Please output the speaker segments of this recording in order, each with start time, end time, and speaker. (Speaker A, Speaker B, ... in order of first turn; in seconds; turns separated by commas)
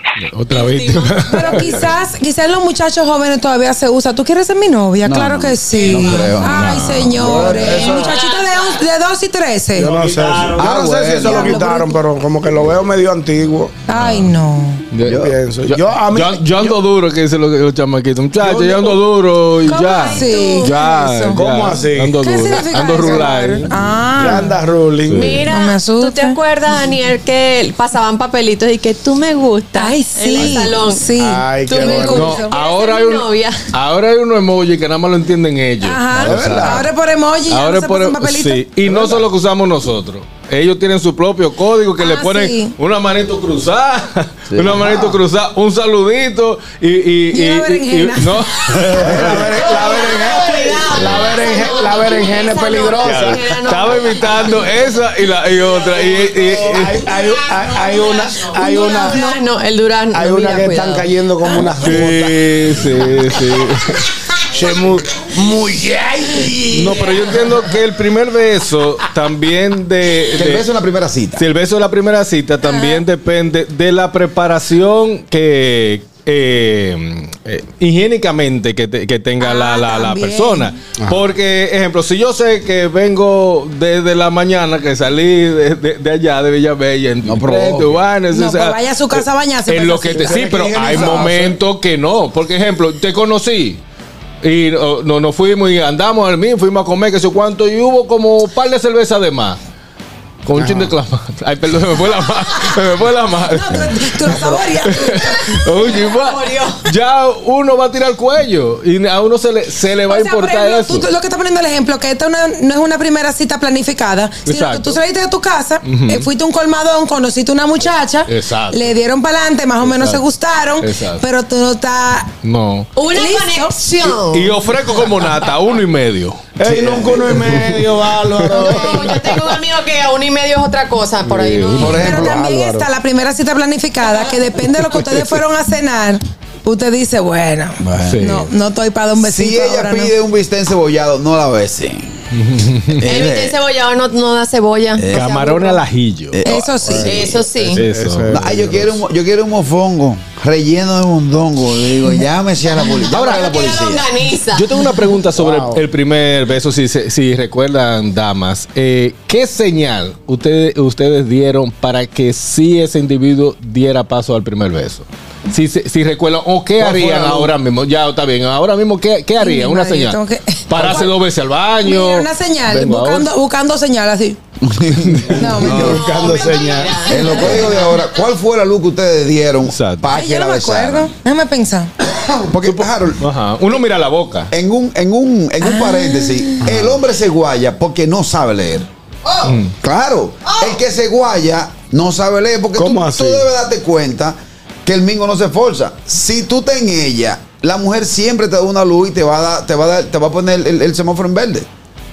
Speaker A: 0.2-1.9, Speaker B: 0.5-1.2, Speaker C: 1.3-9.9, Speaker D: 5.0-8.0, Speaker A: 6.5-7.5, Speaker E: 7.3-8.0, Speaker B: 7.9-8.8, Speaker E: 9.8-13.7, Speaker D: 10.5-11.6, Speaker C: 11.2-12.0, Speaker C: 13.9-14.8, Speaker A: 13.9-14.3, Speaker A: 14.9-23.9, Speaker D: 15.1-15.3, Speaker E: 15.1-16.8, Speaker E: 18.4-18.9, Speaker C: 19.7-21.4, Speaker B: 20.0-20.7, Speaker E: 21.3-22.2, Speaker C: 22.2-24.6, Speaker E: 24.1-25.4, Speaker A: 25.1-25.5, Speaker B: 25.1-31.1, Speaker C: 25.5-26.4, Speaker C: 29.8-32.5, Speaker A: 30.4-30.7, Speaker E: 31.1-32.3, Speaker B: 31.7-33.6, Speaker A: 32.0-36.2, Speaker C: 35.8-38.6, Speaker E: 36.2-36.9, Speaker D: 36.2-36.9, Speaker A: 37.5-49.8, Speaker C: 42.0-42.7, Speaker D: 44.5-45.2, Speaker C: 47.3-48.9, Speaker E: 49.0-53.6, Speaker D: 49.0-49.4, Speaker B: 49.5-54.8, Speaker A: 50.9-51.3, Speaker A: 53.0-57.0, Speaker E: 56.5-59.2, Speaker B: 57.1-61.1, Speaker E: 60.1-63.0, Speaker A: 61.7-64.0, Speaker E: 64.5-67.1, Speaker A: 66.7-70.6, Speaker D: 70.3-71.4, Speaker A: 71.4-93.8, Speaker C: 72.6-73.0, Speaker C: 79.4-80.7, Speaker D: 87.2-87.9, Speaker C: 88.3-90.4, Speaker E: 90.2-91.5, Speaker D: 90.8-91.3, Speaker A: 94.4-99.6, Speaker A: 100.4-111.1, Speaker E: 100.5-100.9, Speaker C: 103.5-105.6, Speaker B: 105.9-106.9, Speaker C: 110.1-122.3, Speaker A: 114.5-115.0, Speaker A: 115.8-116.3, Speaker A: 118.3-118.9, Speaker A: 119.8-120.2, Speaker A: 120.8-121.2, Speaker A: 122.4-122.9, Speaker B: 122.9-124.6, Speaker C: 123.1-123.8, Speaker A: 124.2-126.5, Speaker E: 126.6-129.4, Speaker D: 126.6-127.4, Speaker A: 127.4-128.9, Speaker B: 128.4-132.0, Speaker A: 131.2-132.0, Speaker D: 131.8-132.4, Speaker C: 131.9-140.1, Speaker E: 132.2-132.9, Speaker D: 137.8-138.3, Speaker A: 138.0-138.5, Speaker D: 139.2-142.2, Speaker A: 142.3-143.0, Speaker D: 142.9-143.6, Speaker B: 143.0-145.8, Speaker D: 144.9-145.3, Speaker A: 145.1-146.7, Speaker D: 146.3-147.4, Speaker C: 146.4-147.1, Speaker E: 146.8-148.9, Speaker B: 147.1-147.8, Speaker A: 147.8-148.4, Speaker D: 148.3-154.0, Speaker B: 153.0-154.8, Speaker A: 154.5-173.3, Speaker E: 155.4-155.8, Speaker D: 166.8-167.5, Speaker C: 169.4-171.0, Speaker C: 171.8-174.4, Speaker D: 174.6-176.3, Speaker C: 175.4-175.9, Speaker E: 175.5-177.2, Speaker B: 175.8-178.2, Speaker D: 177.0-181.1, Speaker A: 179.7-180.1, Speaker C: 180.1-181.9, Speaker D: 182.4-183.2, Speaker A: 182.7-184.5, Speaker D: 184.5-188.9, Speaker C: 185.6-186.6, Speaker A: 189.4-189.7, Speaker D: 189.8-201.7, Speaker E: 192.8-193.4